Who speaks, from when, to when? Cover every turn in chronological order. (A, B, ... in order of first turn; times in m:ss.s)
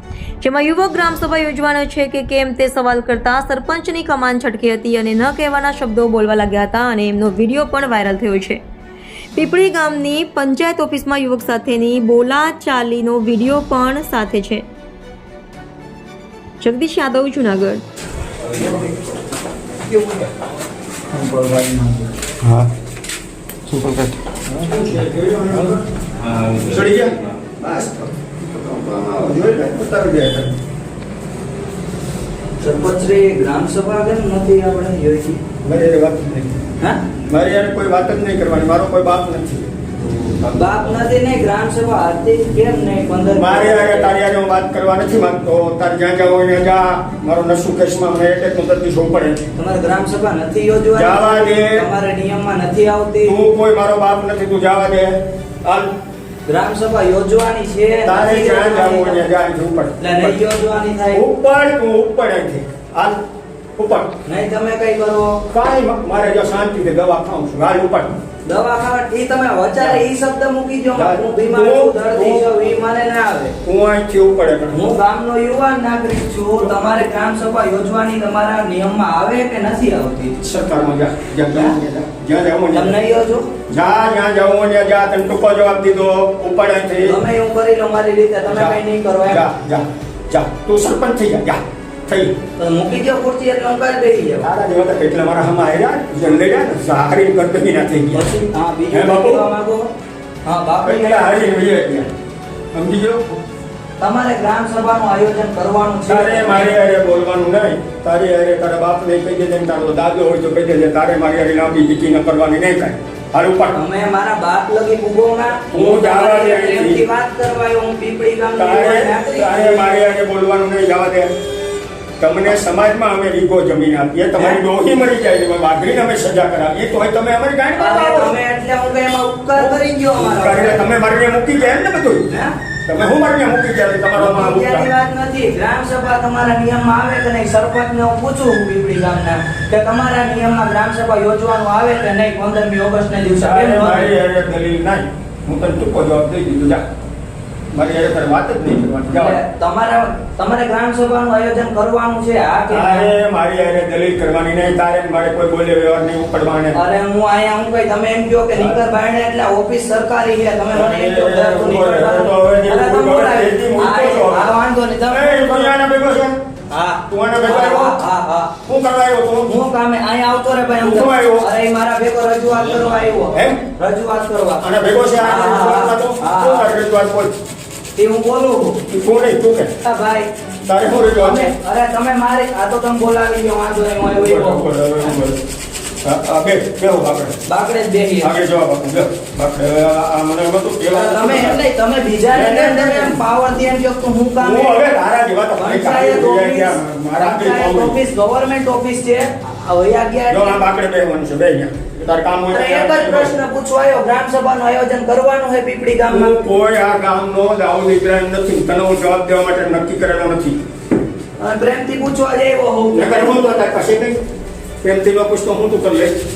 0:00.4-0:08.6 A
0:09.3-0:14.6 A
0:16.6-0:17.8 A
0:21.1-0:22.1 B
0:23.8-0:24.8 B
0:24.6-0:25.8 C
0:26.3-0:26.8 B
0:26.5-0:30.5 C
0:32.6-0:35.4 D
0:35.6-0:36.6 C
0:37.3-0:40.5 C
0:40.5-0:44.1 D
0:43.3-0:49.5 C
0:49.6-0:53.4 D
0:50.9-0:51.8 C
0:53.2-0:55.9 C
0:56.5-0:59.2 D
0:58.0-1:00.4 C
1:00.0-1:01.2 D
1:01.1-1:03.2 C
1:03.8-1:04.2 C
1:04.2-1:05.4 D
1:05.5-1:08.2 C
1:08.4-1:13.5 D
1:10.9-1:12.5 C
1:13.6-1:14.9 C
1:14.7-1:20.4 D
1:20.4-1:23.0 C
1:22.7-1:23.5 D
1:23.7-1:27.2 C
1:27.0-1:29.4 D
1:28.5-1:32.3 C
1:32.6-1:34.5 D
1:34.4-1:38.3 C
1:38.1-1:39.9 D
1:38.9-1:39.4 C
1:40.4-1:41.5 D
1:40.8-1:42.1 C
1:42.7-1:43.4 C
1:44.0-1:46.7 D
1:46.1-1:53.8 C
1:53.7-1:59.9 D
1:55.7-1:57.0 C
1:58.6-2:01.3 C
2:02.2-2:08.3 C
2:07.8-2:10.9 D
2:09.6-2:12.3 C
2:12.8-2:14.9 C
2:14.2-2:24.1 D
2:23.4-2:26.8 C
2:27.7-2:29.4 C
2:29.1-2:33.1 D
2:32.7-2:36.8 C
2:36.7-2:45.7 D
2:40.7-2:44.5 C
2:45.1-2:46.4 C
2:46.7-2:48.5 D
2:47.1-2:48.0 C
2:48.6-2:49.6 C
2:49.5-2:54.6 D
2:50.8-2:51.5 C
2:53.3-2:53.6 C
2:54.6-2:57.3 C
2:55.2-2:56.7 D
2:58.0-2:58.8 D
2:58.9-2:59.7 C
2:59.8-3:00.3 D
3:00.7-3:01.5 C
3:01.2-3:04.7 D
3:04.1-3:05.4 C
3:06.0-3:07.4 C
3:07.5-3:08.4 D
3:08.2-3:11.6 C
3:10.9-3:14.8 D
3:12.3-3:13.2 C
3:14.4-3:18.0 C
3:15.6-3:20.6 D
3:20.3-3:23.3 C
3:22.5-3:26.4 D
3:26.1-3:30.6 C
3:31.4-3:33.4 D
3:32.9-3:34.2 C
3:34.8-3:36.1 C